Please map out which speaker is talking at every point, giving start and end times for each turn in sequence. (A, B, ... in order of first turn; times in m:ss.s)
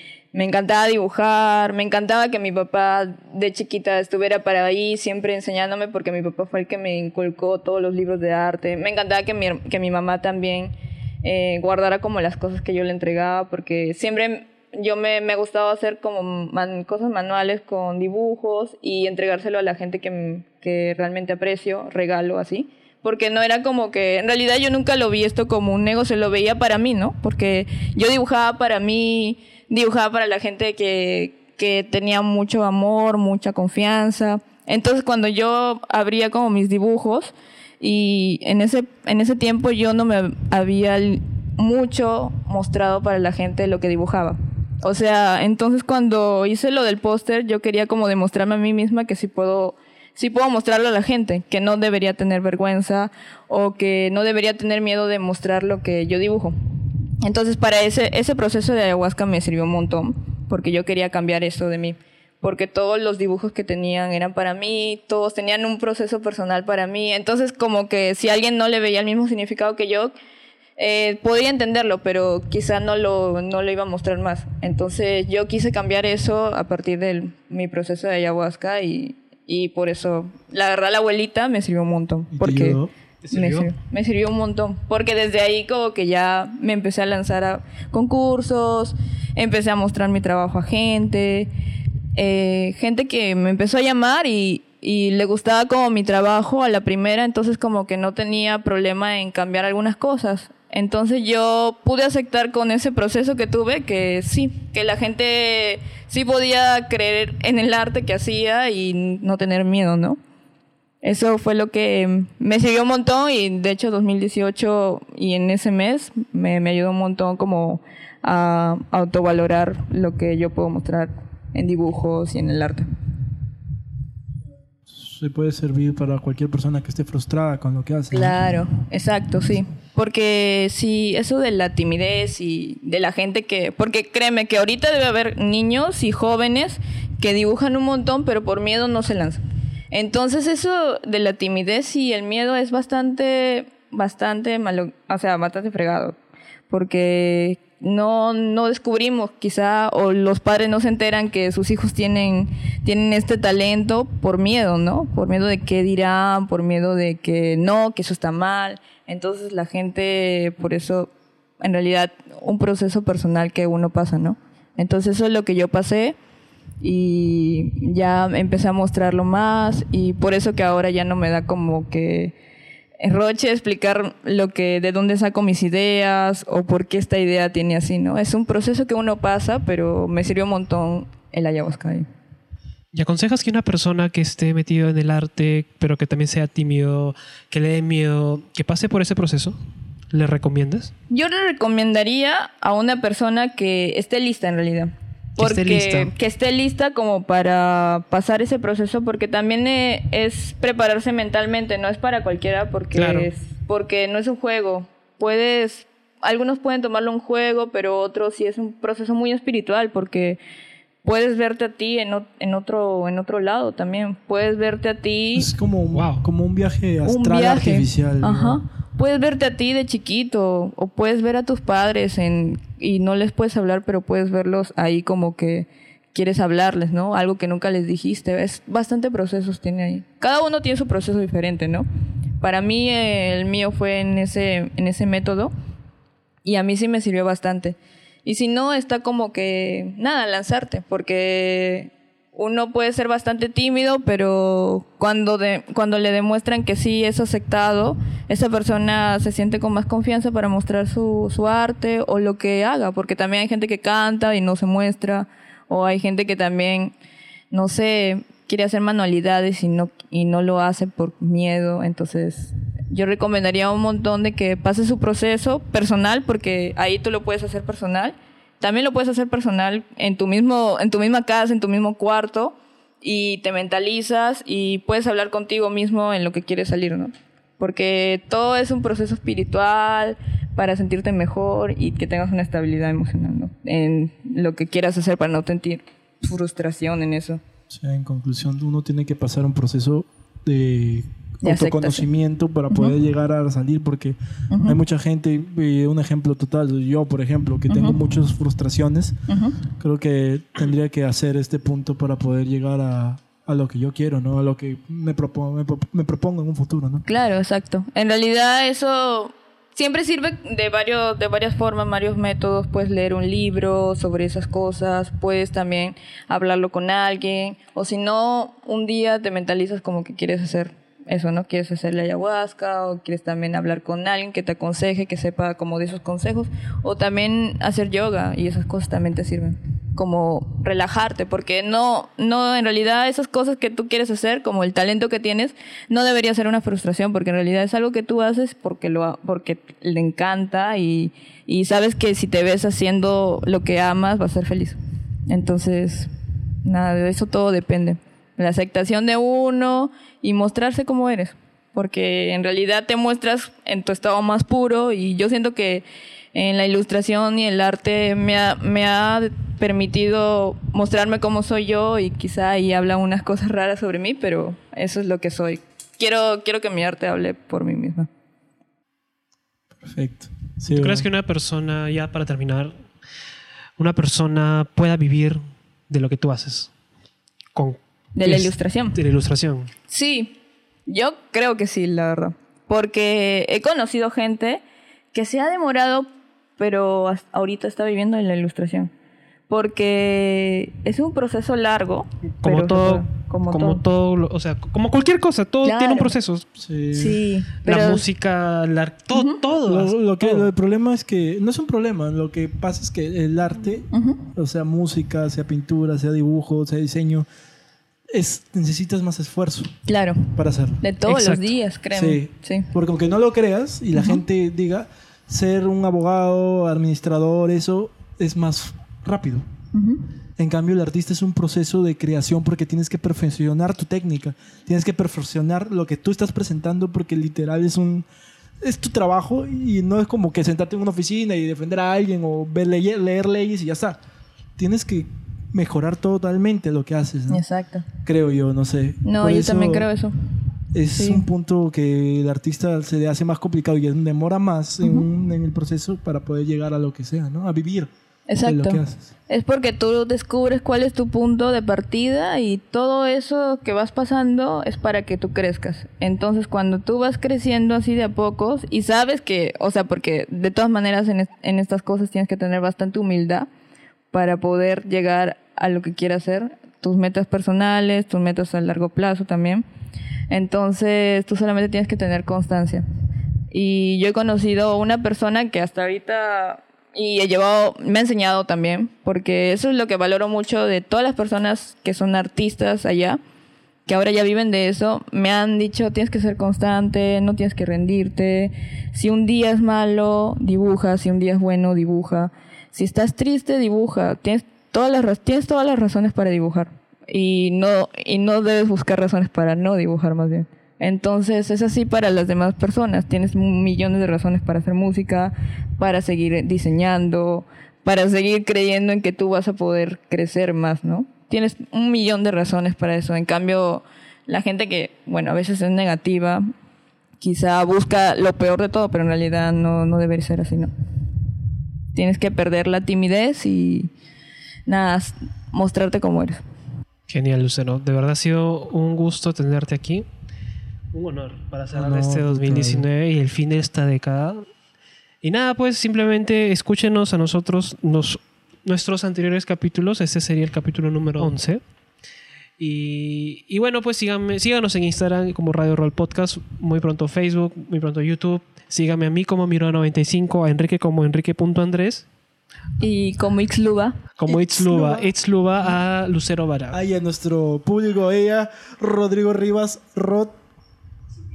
0:00.3-0:56.5 A
0:57.2-1:10.1 A
1:10.8-1:22.8 A
1:22.3-1:22.9 B
1:23.2-1:23.6 C
1:23.3-1:31.5 A
1:32.1-1:50.2 A
1:51.0-2:02.9 A
2:04.9-2:08.4 B
2:08.1-2:26.2 A
2:26.7-2:46.2 A
2:46.8-2:52.3 A
2:53.0-3:02.1 A
3:02.9-3:09.6 C
3:10.1-3:10.9 C
3:11.1-3:30.4 A
3:15.4-3:16.1 C
3:22.9-3:23.3 C
3:31.0-3:35.5 A
3:35.3-3:38.6 B
3:35.9-3:36.2 C
3:37.0-3:51.9 A
3:52.4-3:55.5 A
3:56.4-4:16.9 A
4:17.5-4:47.4 A
4:47.7-5:07.0 B
4:51.4-4:52.1 A
4:52.7-4:52.9 A
4:54.5-4:54.8 A
4:57.7-4:58.0 A
4:59.3-4:59.6 A
5:07.0-5:44.8 A
5:45.3-5:46.1 A
5:46.6-6:08.1 A
6:09.8-6:11.1 B
6:10.7-6:12.7 C
6:13.8-6:16.7 C
6:17.5-6:19.7 C
6:18.2-6:19.0 A
6:19.9-6:20.3 A
6:20.9-6:28.9 A
6:29.5-6:33.8 A
6:32.4-6:36.4 C
6:35.6-6:36.1 A
6:36.6-6:37.2 B
6:36.9-6:38.0 A
6:37.6-6:40.5 C
6:39.6-6:47.3 B
6:43.9-6:44.2 A
6:48.1-6:49.8 B
6:49.8-6:52.7 A
6:50.3-6:50.8 B
6:51.0-6:51.5 C
6:51.9-6:59.4 B
6:53.9-6:54.2 A
6:59.7-7:00.0 A
7:00.4-7:08.0 B
7:08.6-7:14.0 B
7:14.6-7:17.4 B
7:17.3-7:17.8 A
7:18.0-7:19.9 B
7:19.0-7:20.1 A
7:20.7-7:27.9 B
7:20.9-7:21.2 A
7:28.3-7:43.5 A
7:28.4-7:29.0 B
7:44.1-7:49.6 A
7:50.3-7:52.8 A
7:53.5-8:03.2 A
8:03.8-8:36.5 A
8:37.2-8:40.7 A
8:41.9-8:43.9 A
8:44.7-8:46.4 A
8:47.1-8:50.0 C
8:50.9-8:54.4 C
8:51.7-8:52.9 B
8:55.2-9:01.6 C
9:02.6-9:12.0 C
9:12.8-9:14.6 A
9:14.2-9:16.8 C
9:14.7-9:15.1 B
9:16.7-9:20.4 B